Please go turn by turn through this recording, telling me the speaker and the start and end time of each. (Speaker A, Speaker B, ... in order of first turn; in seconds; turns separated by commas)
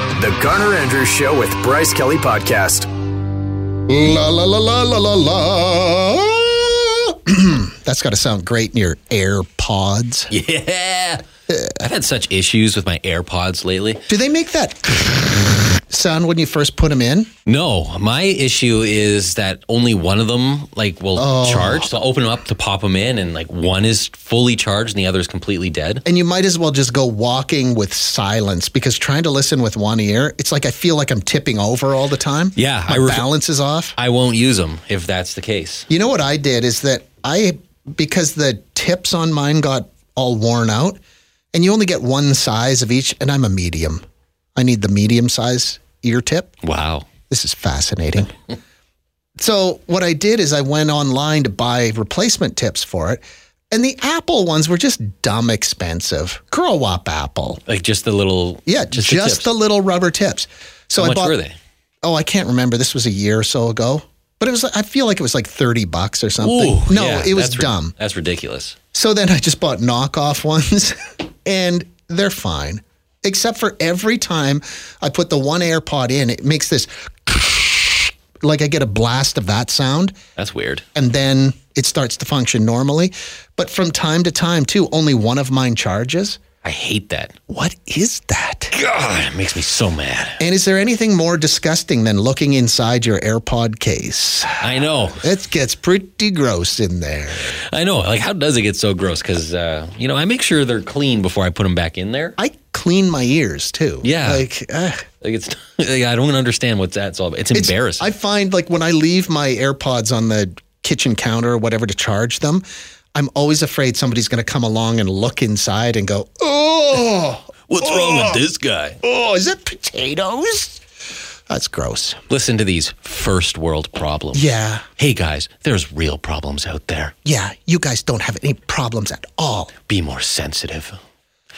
Speaker A: 0.1-2.9, Speaker B: 3.9-10.3, Speaker C: 10.3-11.2, Speaker B: 11.5-11.8, Speaker C: 11.8-14.0, Speaker B: 14.1-17.3, Speaker C: 17.4-26.0, Speaker B: 21.1-21.9, Speaker B: 26.0-34.0, Speaker C: 32.5-33.3, Speaker C: 34.0-35.9, Speaker B: 35.9-41.0, Speaker B: 41.5-44.0, Speaker B: 44.5-46.5, Speaker C: 46.6-47.1, Speaker B: 47.3-48.3, Speaker B: 49.4-57.6, Speaker C: 57.6-59.5, Speaker B: 58.6-61.4, Speaker C: 61.0-61.5, Speaker B: 62.0-67.9, Speaker C: 66.4-68.8, Speaker B: 68.9-80.2, Speaker C: 80.3-80.8, Speaker B: 80.9-86.4, Speaker C: 86.6-87.3, Speaker B: 87.5-88.7, Speaker C: 88.7-90.4, Speaker B: 90.4-97.6, Speaker C: 94.6-95.2, Speaker C: 97.5-102.4, Speaker B: 102.4-105.1, Speaker C: 104.0-104.4, Speaker C: 105.2-108.1, Speaker B: 107.5-118.4, Speaker C: 117.7-119.0, Speaker B: 119.0-120.8, Speaker B: 121.5-122.2, Speaker C: 122.3-124.5, Speaker B: 124.3-124.8, Speaker C: 125.0-127.1, Speaker B: 127.2-129.7, Speaker C: 129.9-131.0